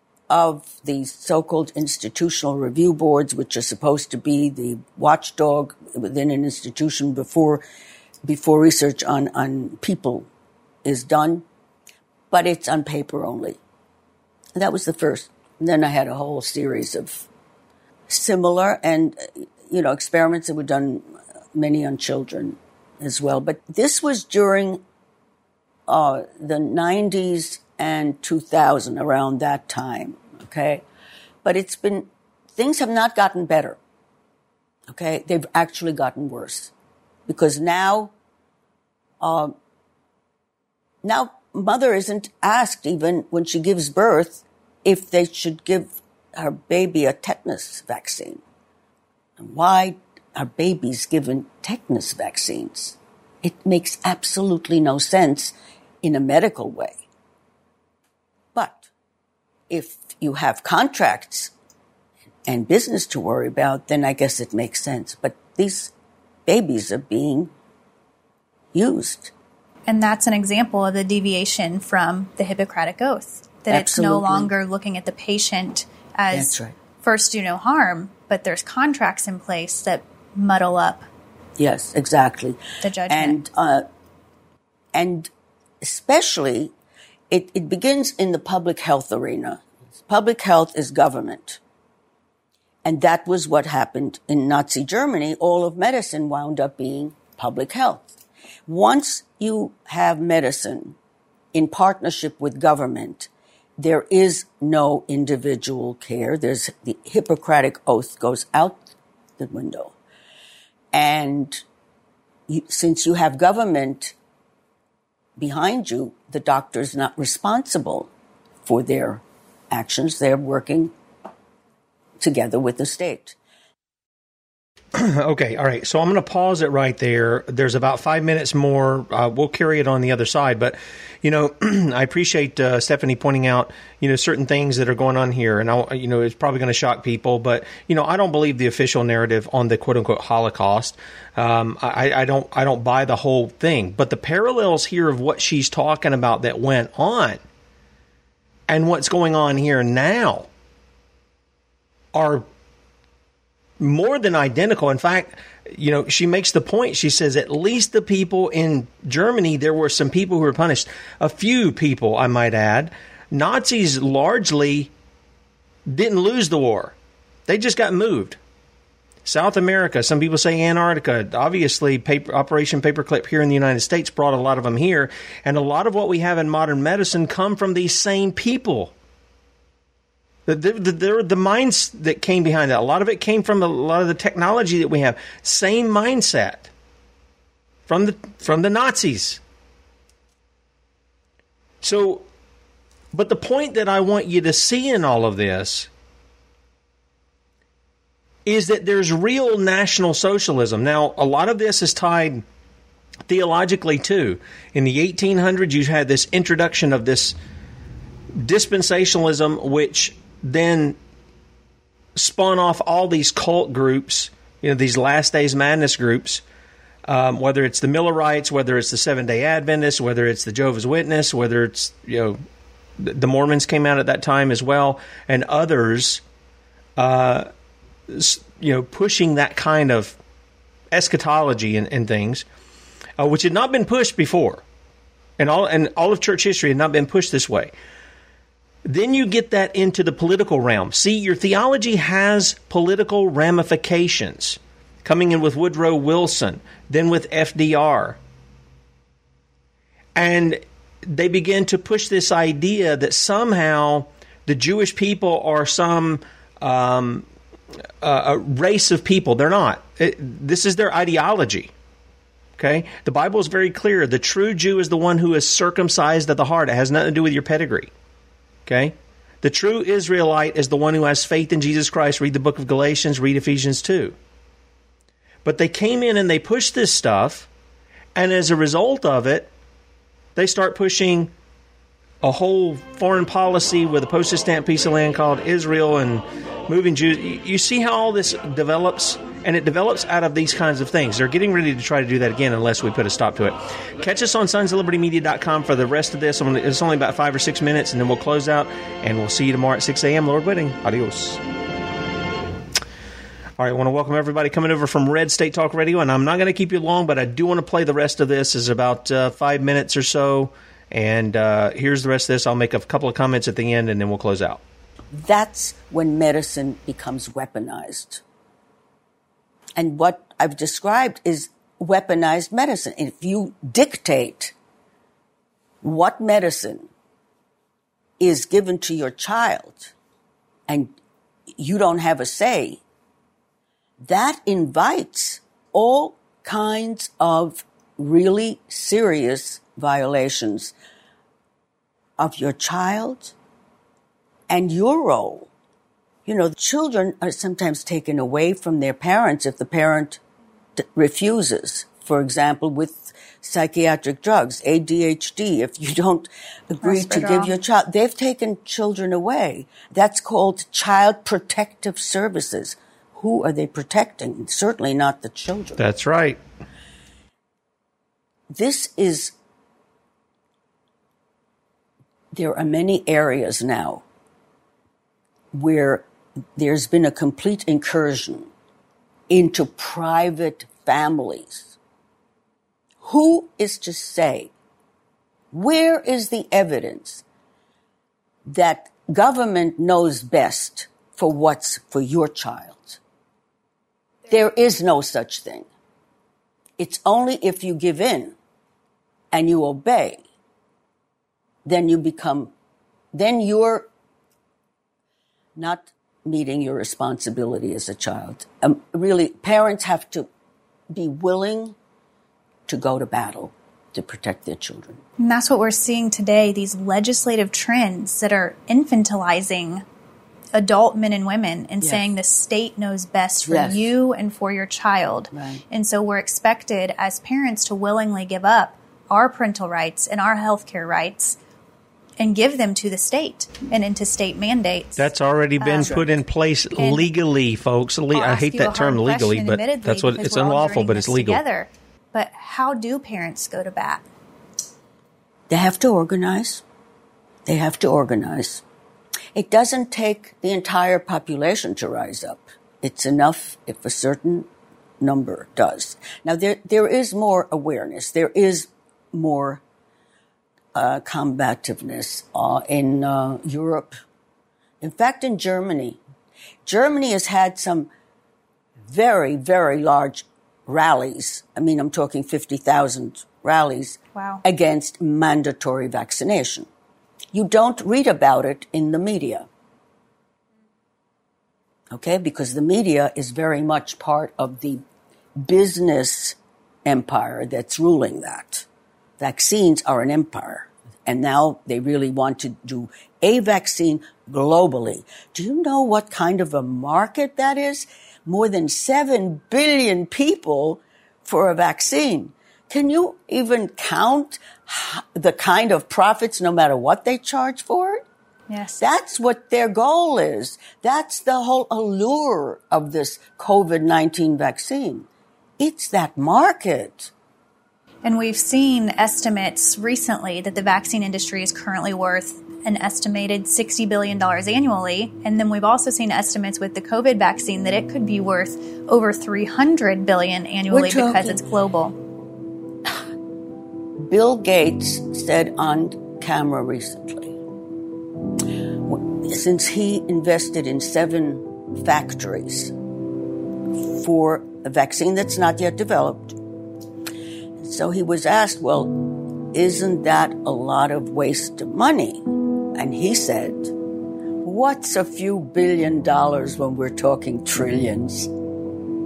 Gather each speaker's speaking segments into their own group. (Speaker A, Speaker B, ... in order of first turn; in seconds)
Speaker A: 0.3-7.6, 8.2-10.3, 10.8-11.4, 12.3-13.6, 14.5-17.3, 18.1-24.8, 25.9-30.8, 31.4-33.8, 34.9-36.7, 37.2-38.1, 39.2-39.5, 41.0-48.4, 49.4-57.0, 58.5-58.9, 59.7-61.5, 62.5-65.9, 66.5-67.5, 68.7-69.3, 73.7-74.5, 76.3-76.7, 81.6-83.8, 84.9-85.3, 85.8-86.7, 87.3-91.6, 92.8-101.0, 101.5-108.8, 109.4-109.9, 110.9-111.6, 112.5-114.1, 115.4-118.1, 118.6-120.9, 122.2-123.3, 315.1-318.2, 319.8-324.5, 325.8-326.9, 328.2-329.9, 330.7-330.9, 331.6-332.8, 334.0-340.7, 342.2-343.3, 344.5-345.5, 346.2-350.2, 350.8-365.8, 368.5-369.3, 372.3-374.0, 375.5-376.1, 376.6-378.5, 379.3-381.8, 383.0-384.5, 385.5-387.2, 388.4-393.0, 394.3-395.7, 396.8-398.4, 399.3-400.2, 401.6-402.5, 403.1-403.9, 405.5-410.3, 410.9-411.8, 412.7-415.0, 423.4-423.9, 425.3-425.6, 445.5-446.6, 447.4-448.6, 449.3-454.5, 455.0-459.6, 460.7-463.9, 464.8-466.0, 466.6-467.9, 468.8-476.7, 477.3-479.5, 481.9-484.8, 485.4-488.7, 489.2-508.0, 508.8-515.1, 515.6-517.1, 530.7-531.4, 534.0-537.4, 538.8-542.7, 543.8-546.4, 547.6-548.9, 549.5-553.7, 554.4-558.3
Speaker B: 69.9-81.0, 82.8-83.4, 356.8-357.5, 415.2-419.8, 420.5-431.4, 432.2-435.1, 435.6-436.0, 436.8-437.1, 438.1-444.0, 474.1-474.4, 508.5-508.8, 518.0-531.9
Speaker C: 124.9-147.4, 148.7-150.5, 152.1-152.4, 153.8-164.9, 165.9-166.9, 167.5-168.4, 169.2-178.9, 180.5-186.7, 187.9-189.4, 191.8-192.2, 193.1-195.9, 198.4-202.4, 203.3-207.3, 208.3-210.9, 212.2-216.4, 217.1-222.4, 223.0-226.2, 227.0-227.5, 228.1-230.2, 230.9-232.4, 233.2-234.6, 235.4-237.7, 238.8-248.2, 250.2-257.2, 258.0-261.7, 262.6-267.9, 268.6-274.1, 275.4-277.5, 278.1-279.5, 280.4-281.3, 282.2-301.4, 303.6-314.6, 365.8-366.4, 435.0-441.4